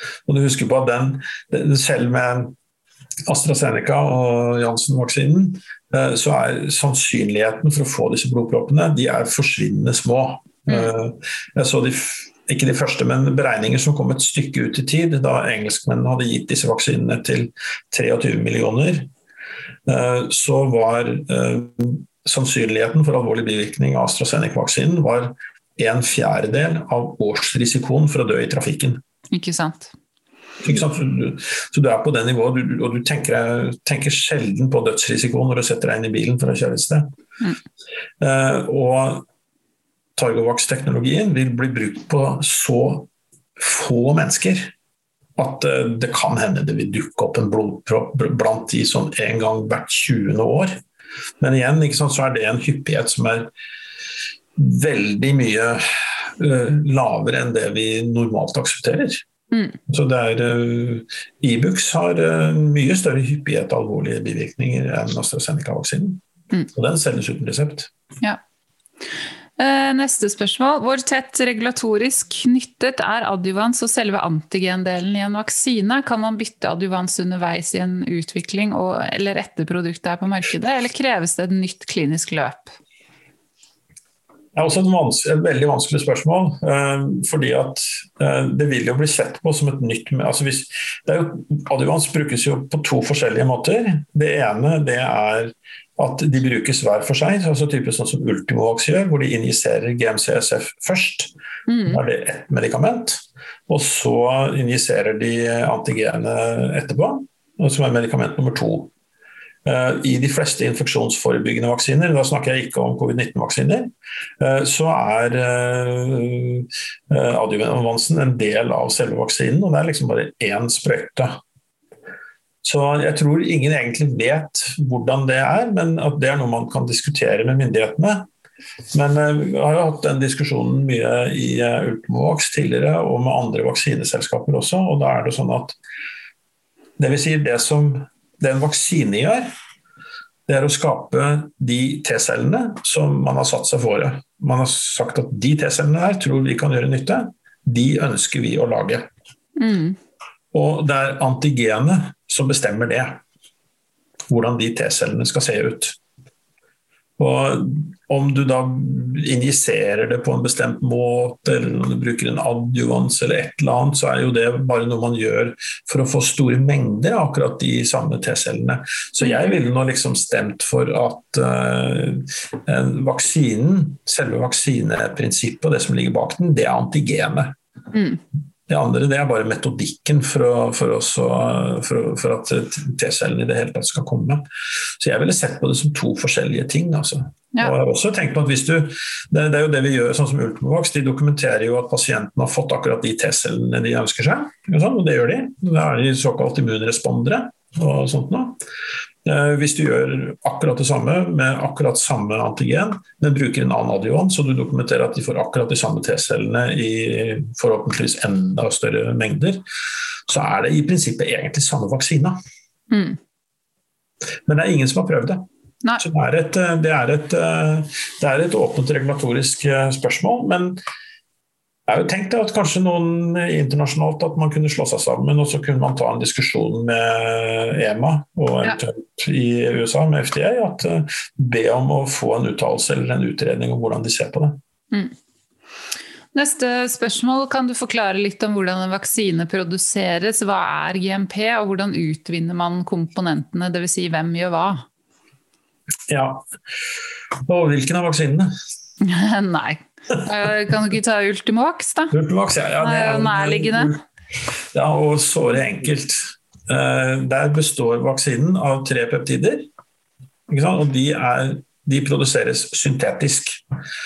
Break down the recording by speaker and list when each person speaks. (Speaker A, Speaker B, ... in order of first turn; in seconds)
Speaker A: 0.2-2.5, 3.3-19.1, 19.9-29.0, 30.6-37.1, 38.2-39.2, 40.1-44.7, 45.4-50.8, 51.4-53.5, 54.5-59.2, 59.9-66.2, 66.7-67.9, 84.5-101.3, 101.9-108.9, 109.6-121.4, 122.6-128.3, 128.9-135.8, 137.0-139.5, 140.5-149.1, 150.5-153.2, 154.3-156.0, 157.2-177.5, 178.7-184.4, 185.0-198.6, 199.2-209.6, 210.3-212.4, 214.5-215.4, 216.0-220.8, 221.9-234.6, 246.1-246.4, 247.5-248.5, 252.1-254.0, 254.7-259.7, 260.5-263.6
Speaker B: 29.3-29.9, 59.5-59.8, 69.6-82.8, 101.7-102.0, 149.6-150.0, 169.2-169.5, 177.9-178.2, 212.9-213.2, 236.3-244.8, 249.0-252.1, 252.8-253.9